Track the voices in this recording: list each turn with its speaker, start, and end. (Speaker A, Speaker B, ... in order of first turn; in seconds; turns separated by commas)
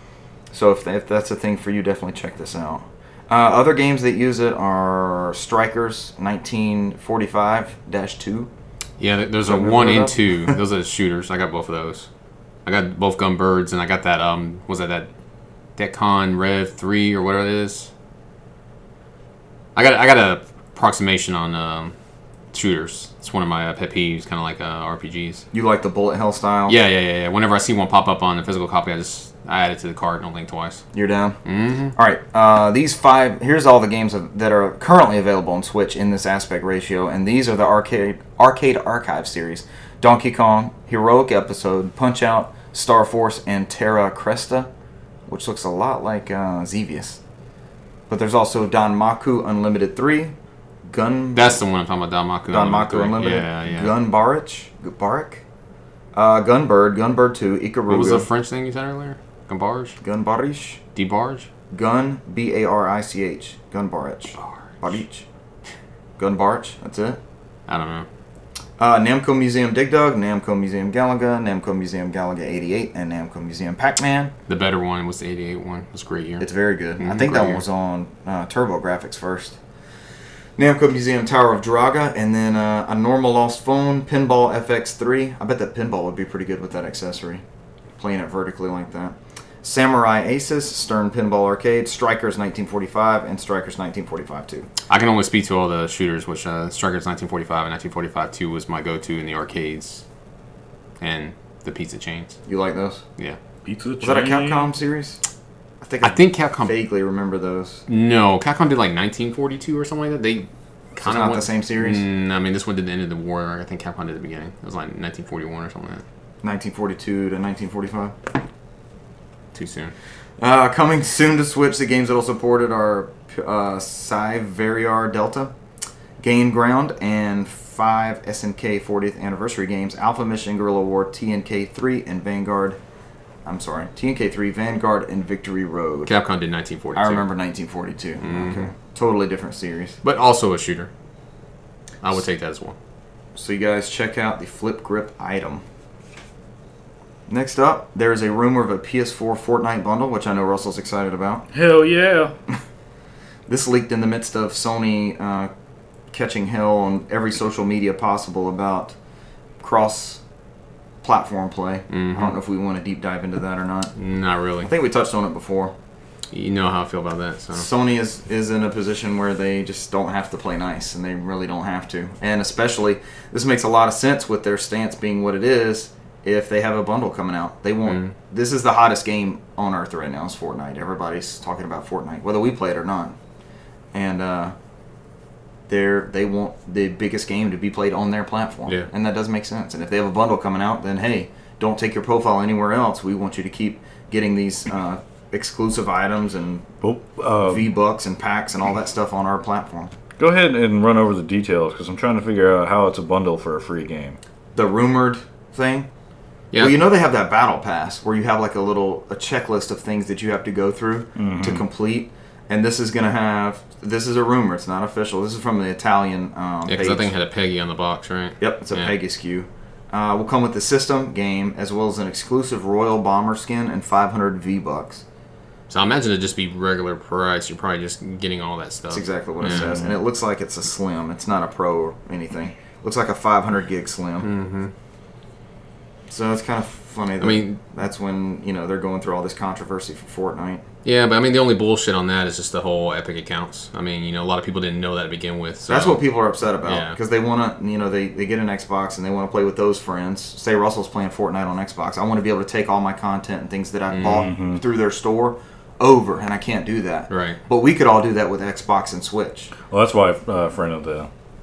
Speaker A: 0.5-8.5, Speaker B: 9.0-12.1, Speaker A: 9.5-10.6, Speaker B: 12.7-15.1, Speaker B: 15.8-17.9, Speaker B: 19.8-21.9, Speaker B: 22.5-25.4, Speaker A: 25.5-26.8, Speaker B: 26.7-30.8, Speaker A: 30.9-31.4, Speaker B: 31.4-31.9, Speaker A: 31.9-44.7, Speaker A: 45.3-47.2, Speaker A: 48.1-50.3, Speaker A: 50.9-51.6, Speaker B: 51.3-53.9, Speaker A: 52.5-55.4, Speaker A: 56.1-58.3, Speaker B: 57.9-60.0, Speaker A: 60.0-60.8, Speaker B: 61.0-61.5, Speaker A: 61.7-65.3, Speaker A: 66.2-67.2, Speaker B: 67.7-68.1, Speaker A: 68.8-74.3, Speaker B: 74.5-77.6, Speaker A: 76.4-79.6, Speaker A: 80.6-87.4, Speaker A: 88.0-94.7, Speaker B: 94.9-100.0, Speaker B: 101.0-102.4, Speaker A: 102.5-103.0, Speaker C: 103.7-104.7, Speaker A: 104.0-105.2, Speaker A: 105.8-107.8, Speaker B: 106.0-106.7, Speaker B: 107.9-116.0, Speaker A: 111.0-112.0, Speaker A: 116.4-118.2, Speaker B: 119.5-119.9, Speaker A: 120.4-125.5, Speaker A: 126.2-132.8, Speaker A: 133.4-136.1, Speaker B: 136.1-137.3, Speaker A: 137.0-140.0, Speaker B: 138.2-138.7, Speaker B: 140.0-140.9, Speaker B: 142.0-142.8, Speaker A: 143.3-145.6, Speaker A: 147.3-151.5, Speaker C: 151.5-152.3, Speaker A: 153.5-155.5, Speaker A: 156.1-158.9, Speaker A: 159.6-160.2, Speaker A: 161.0-163.9, Speaker B: 161.9-162.4, Speaker B: 164.0-164.7, Speaker A: 164.6-165.7, Speaker B: 166.3-167.7, Speaker A: 167.5-183.2, Speaker B: 177.9-178.1, Speaker A: 183.9-184.5, Speaker A: 185.7-196.7, Speaker C: 196.8-197.7, Speaker A: 197.4-199.9, Speaker C: 200.2-204.2, Speaker A: 204.6-205.9, Speaker B: 206.5-206.8, Speaker A: 206.6-217.1, Speaker C: 211.2-211.6, Speaker B: 216.7-218.9, Speaker A: 218.4-225.0, Speaker B: 225.7-229.8, Speaker A: 228.9-234.3, Speaker C: 229.4-229.9, Speaker B: 234.2-234.7, Speaker A: 236.1-240.6, Speaker B: 237.2-237.6, Speaker B: 240.8-246.0, Speaker A: 245.7-259.5, Speaker B: 246.6-247.0, Speaker B: 253.9-254.2, Speaker C: 254.0-254.6, Speaker B: 257.1-257.4, Speaker C: 259.7-261.1